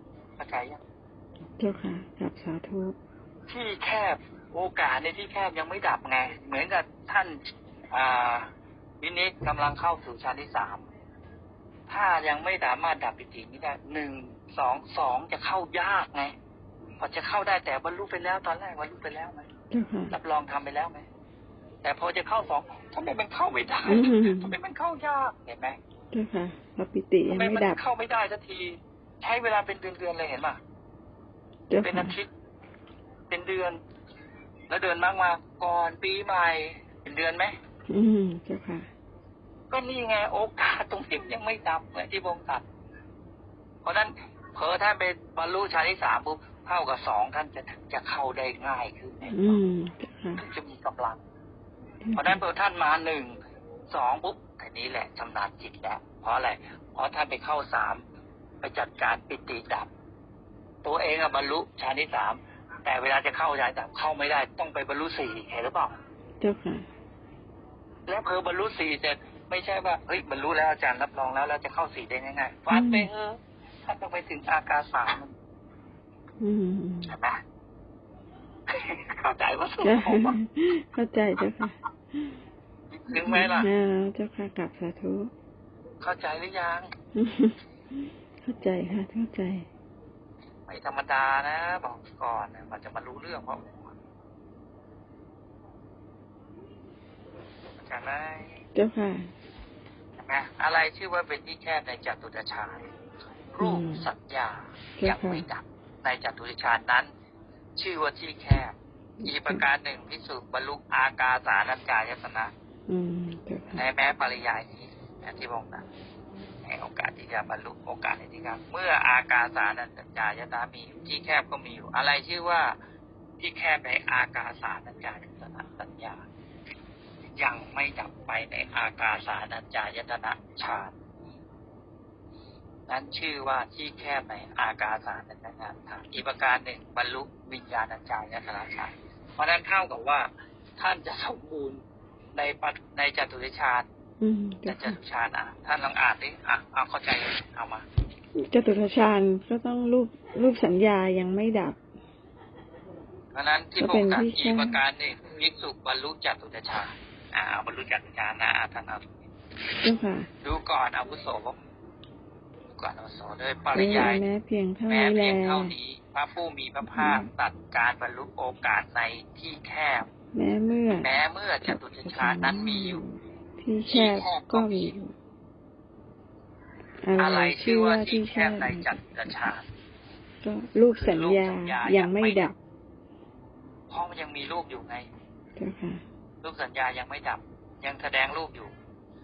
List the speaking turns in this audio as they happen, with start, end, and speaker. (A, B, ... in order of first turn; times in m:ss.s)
0:00.4-0:00.8 A
0:01.6-0:03.0 B
0:03.5-0:10.8 A
0:11.9-0:16.3 A
0:17.0-0:19.5 A
0:19.7-0:20.1 B
0:20.1-0:21.0 A
0:21.8-0:25.8 A
0:23.8-0:24.6 B
0:26.1-0:27.8 B
0:27.3-0:30.6 A
0:31.7-0:32.2 B
0:31.8-0:32.3 A
0:33.3-0:33.8 A
0:34.7-0:37.5 A
0:37.9-0:38.9 B
0:39.7-0:42.6 A
0:43.8-0:49.6 A
0:49.3-0:50.4 B
0:50.4-0:51.2 A
0:52.0-0:52.4 B
0:52.1-0:53.4 A
0:53.9-0:58.0 A
0:58.6-0:59.9 A
1:00.8-1:05.9 A
1:06.4-1:06.9 B
1:08.1-1:15.3 A
1:12.7-1:13.1 B
1:16.4-1:17.1 B
1:17.1-1:17.4 A
1:18.7-1:20.4 A
1:19.8-1:22.4 B
1:22.9-1:23.7 A
1:23.1-1:25.3 B
1:26.0-1:26.9 A
1:27.2-1:27.6 B
1:28.4-1:29.7 B
1:30.7-1:33.9 A
1:37.8-1:38.6 A
1:38.7-1:39.3 B
1:40.2-1:42.9 A
1:43.5-1:47.1 A
1:43.6-1:44.0 B
1:45.0-1:45.4 B
1:47.8-1:52.5 A
1:49.2-1:49.6 B
1:52.9-1:53.8 B
1:53.7-1:55.8 A
1:56.6-2:02.8 A
2:03.4-2:06.2 A
2:07.3-2:10.9 A
2:12.9-2:21.8 A
2:22.3-2:23.8 A
2:24.2-2:24.9 B
2:24.6-2:27.8 A
2:28.4-2:31.8 B
2:33.3-2:39.1 A
2:33.8-2:34.8 B
2:39.8-2:40.3 B
2:40.4-2:41.6 A
2:42.7-2:44.3 A
2:43.7-2:45.7 B
2:44.9-2:50.1 A
2:46.8-2:47.3 B
2:50.3-2:51.1 B
2:51.0-2:53.0 A
2:51.6-2:55.1 B
2:53.9-2:54.9 A
2:57.0-2:59.5 B
2:57.2-2:59.6 A
3:00.4-3:02.6 B
3:00.9-3:02.5 A
3:03.9-3:05.1 A
3:05.6-3:06.0 B
3:06.4-3:08.7 A